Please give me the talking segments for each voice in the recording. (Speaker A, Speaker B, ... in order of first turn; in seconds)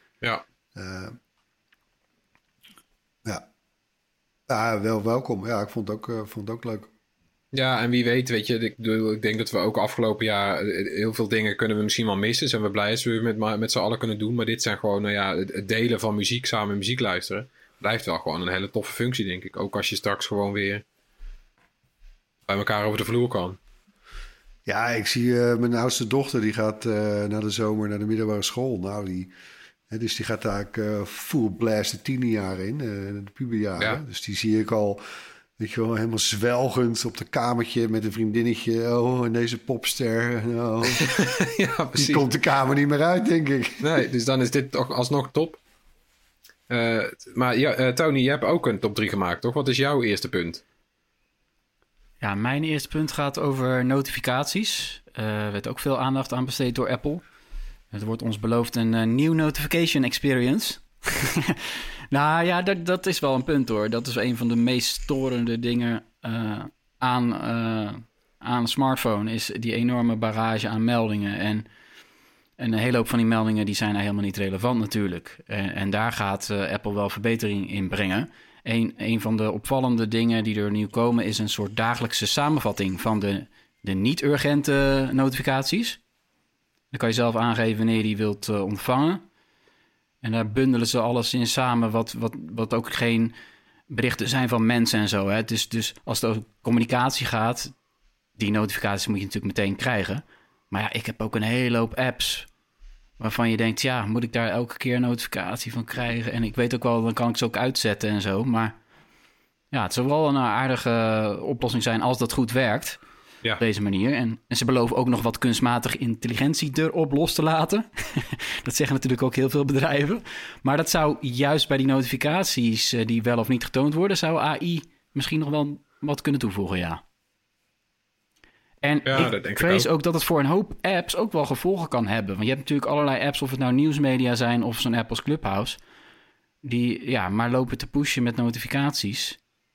Speaker A: 0.7-1.1, 4.5-6.9, 24.6-29.3, 29.9-35.0, 35.6-41.1, 41.9-44.0
Speaker B: 7.5-20.8, 22.5-23.6, 40.9-42.2, 43.8-45.6, 46.7-50.6, 129.1-129.9
Speaker C: 52.2-57.2, 57.9-71.7, 72.6-86.0, 86.9-89.2, 90.2-93.3, 93.9-97.7, 98.4-102.5, 103.2-108.7, 109.7-113.0, 113.6-127.0, 128.8-135.8, 136.6-139.4